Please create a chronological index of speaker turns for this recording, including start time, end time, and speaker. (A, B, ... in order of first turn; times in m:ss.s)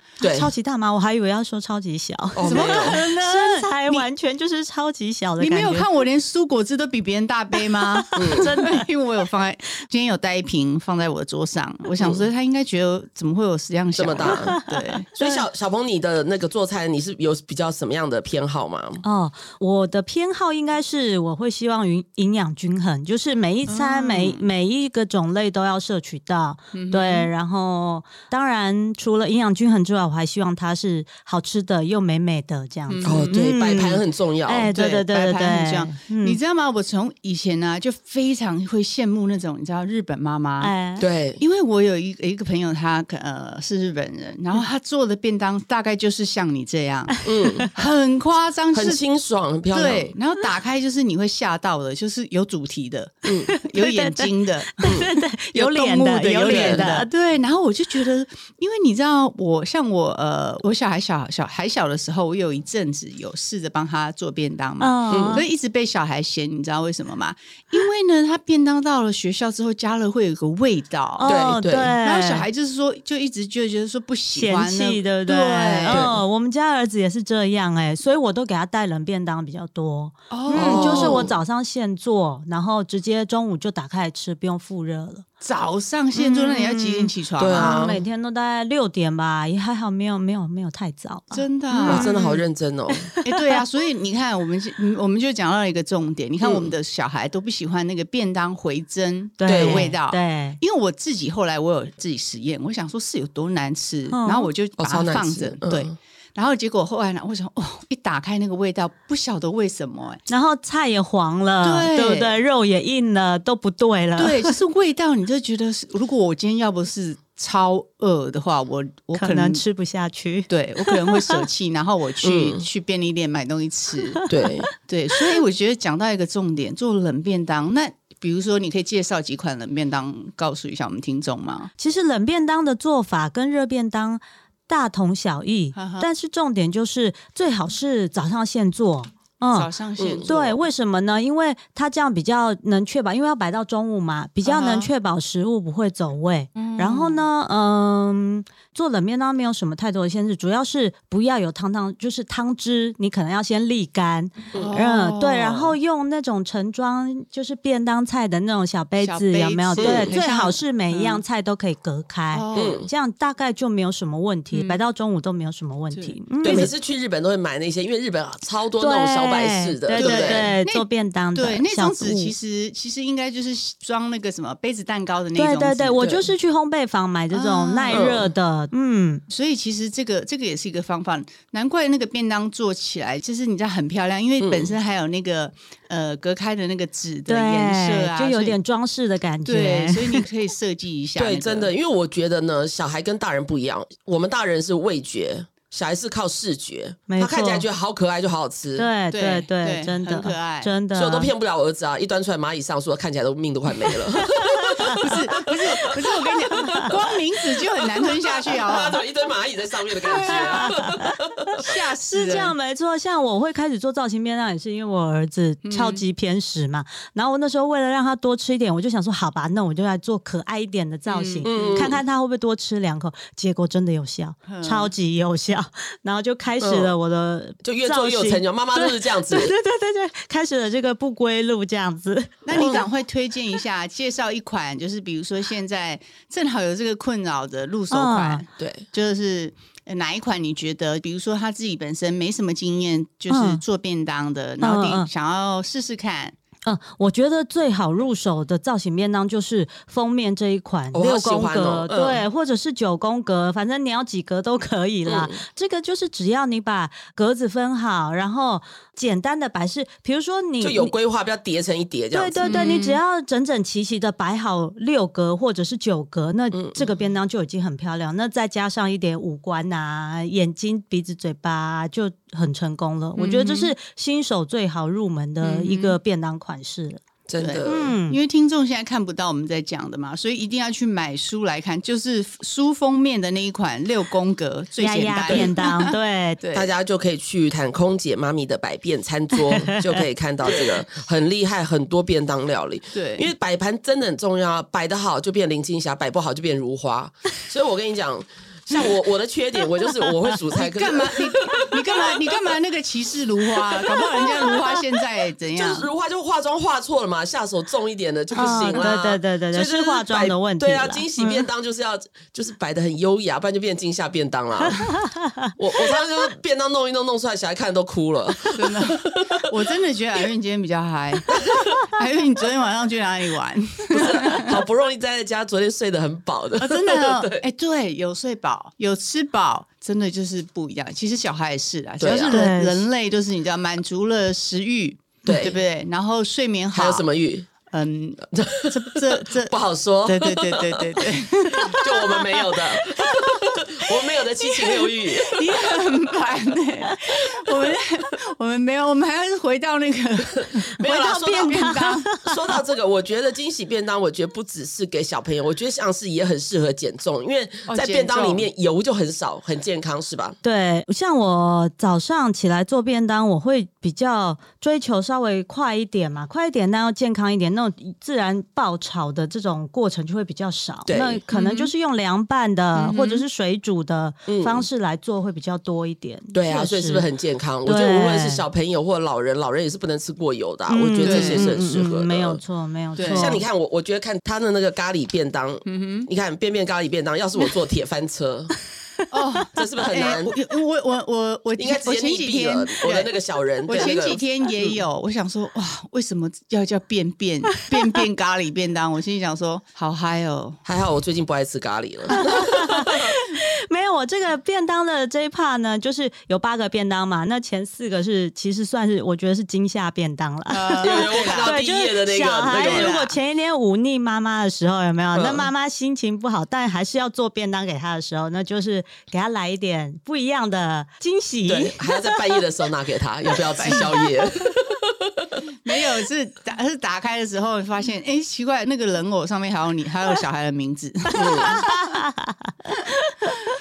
0:00.2-0:00.5 A
0:00.2-0:05.9 B
0:02.4-0:03.0 A
0:02.4-0:04.1 C
0:05.4-0:15.5 C
0:08.0-0:08.8 B
0:08.2-0:08.5 A
0:12.0-0:12.3 A
0:14.0-0:14.6 A
0:15.2-0:19.0 A
0:19.0-0:36.4 B
0:23.7-0:24.4 C
0:26.7-0:27.3 C
0:32.9-0:33.4 C
0:33.0-0:34.7 A
0:34.7-0:40.7 C
0:40.6-0:41.1 B
0:41.0-0:41.4 A
0:41.4-0:47.2 C
0:47.2-0:47.7 B
0:47.2-0:47.7 A
0:47.7-0:49.0 C
0:48.7-0:50.1 A
0:49.7-1:11.3 C
0:53.3-0:53.5 A
0:53.5-0:57.1 B
0:56.5-0:56.8 A
1:04.8-1:05.5 B
1:05.1-1:05.4 A
1:11.2-1:12.4 B
1:11.2-1:12.0 A
1:12.0-1:16.1 C
1:14.3-1:25.3 B
1:15.9-1:16.2 A
1:20.3-1:21.3 C
1:20.5-1:21.3 A
1:25.4-1:27.9 C
1:26.2-1:32.4 B
1:27.4-1:28.0 A
1:31.3-1:32.2 C
1:31.8-1:33.1 A
1:33.1-1:33.4 B
1:33.2-1:50.3 C
1:36.4-1:36.7 A
1:39.4-1:40.6 B
1:39.5-1:39.9 A
1:44.1-1:44.5 B
1:44.8-1:45.9 A
1:50.3-1:54.6 B
1:51.6-1:52.4 C
1:54.2-1:59.6 C
1:59.2-2:01.4 B
2:00.5-2:04.2 C
2:02.2-2:02.6 A
2:04.3-2:04.7 A
2:04.8-2:11.7 C
2:11.8-2:19.7 B
2:15.8-2:16.1 C
2:19.5-2:20.6 C
2:20.0-2:20.4 A
2:20.3-2:46.7 B
2:24.4-2:24.9 C
2:26.6-2:27.2 C
2:34.6-2:35.8 C
2:39.0-2:41.2 C
2:39.8-2:40.2 A
2:42.3-2:42.8 C
2:42.5-2:42.9 A
2:44.5-2:44.8 C
2:45.9-2:46.7 C
2:46.4-2:50.5 A
2:48.8-2:52.4 B
2:50.0-2:56.3 C
2:55.4-2:59.2 B
2:57.3-2:58.1 C
2:57.9-2:58.3 A
2:59.3-3:08.6 C
3:04.4-3:04.7 A
3:07.3-3:10.2 B
3:09.4-3:11.7 C
3:11.2-3:18.9 A
3:17.1-3:17.7 B
3:18.8-3:21.3 B
3:19.1-3:20.7 C
3:20.9-3:27.2 A
3:24.4-3:25.0 B
3:25.0-3:29.0 C
3:27.8-3:31.8 A
3:30.0-3:30.7 C
3:30.6-3:31.1 B
3:31.6-3:32.5 C
3:32.0-3:52.8 B
3:35.6-3:36.0 C
3:41.1-3:41.9 C
3:41.4-3:42.0 A
3:44.5-3:44.9 C
3:46.6-3:46.9 A
3:47.6-3:49.5 A
3:52.4-4:06.4 C
3:52.6-3:52.9 A
3:57.9-3:58.4 B
3:58.6-3:58.9 A
4:03.3-4:03.6 B
4:04.6-4:05.1 B
4:06.7-4:20.9 B
4:10.9-4:12.2 A
4:15.1-4:15.4 A
4:20.6-4:22.6 A
4:22.1-4:37.0 B
4:22.4-4:23.0 C
4:26.5-4:26.9 A
4:33.2-4:33.7 C
4:35.4-4:36.0 C
4:37.3-4:38.0 A
4:37.4-4:46.7 C
4:37.6-4:38.2 B
4:44.8-4:46.4 B
4:46.5-5:02.5 A
4:49.4-4:50.0 B
4:52.9-4:53.3 C
5:00.5-5:05.9 C
5:03.7-5:04.7 A
5:05.6-5:14.9 A
5:08.4-5:11.4 B
5:15.6-5:19.5 A
5:18.5-5:24.5 C
5:21.3-5:21.8 A
5:23.9-5:27.4 A
5:26.6-5:37.1 C
5:32.0-5:32.4 A
5:32.3-5:32.8 B
5:35.2-5:35.6 A
5:36.7-5:37.5 A
5:37.7-5:42.2 C
5:38.3-5:45.8 A
5:45.2-5:52.1 C
5:50.4-5:51.6 A
5:50.9-5:52.4 B
5:52.2-6:00.4 A
5:57.7-5:58.5 C
6:00.4-6:17.0 B
6:10.9-6:11.2 A
6:11.3-6:11.7 C
6:12.8-6:13.2 C
6:14.3-6:14.7 A
6:16.3-6:22.4 A
6:17.6-6:18.4 B
6:20.7-6:23.4 B
6:21.0-6:21.5 C
6:23.0-6:23.4 C
6:23.0-6:28.5 A
6:25.7-6:26.1 C
6:29.1-6:33.1 C
6:29.6-6:30.4 A
6:31.6-6:34.8 A
6:33.6-6:40.6 C
6:40.6-6:43.1 A
6:42.1-7:02.1 B
6:50.5-6:51.6 C
6:50.8-6:52.9 A
6:52.5-6:53.1 C
6:55.1-6:55.5 A
7:01.5-7:05.4 A
7:03.4-7:04.2 C
7:05.6-7:12.0 C
7:11.2-7:11.6 A
7:11.4-7:13.4 B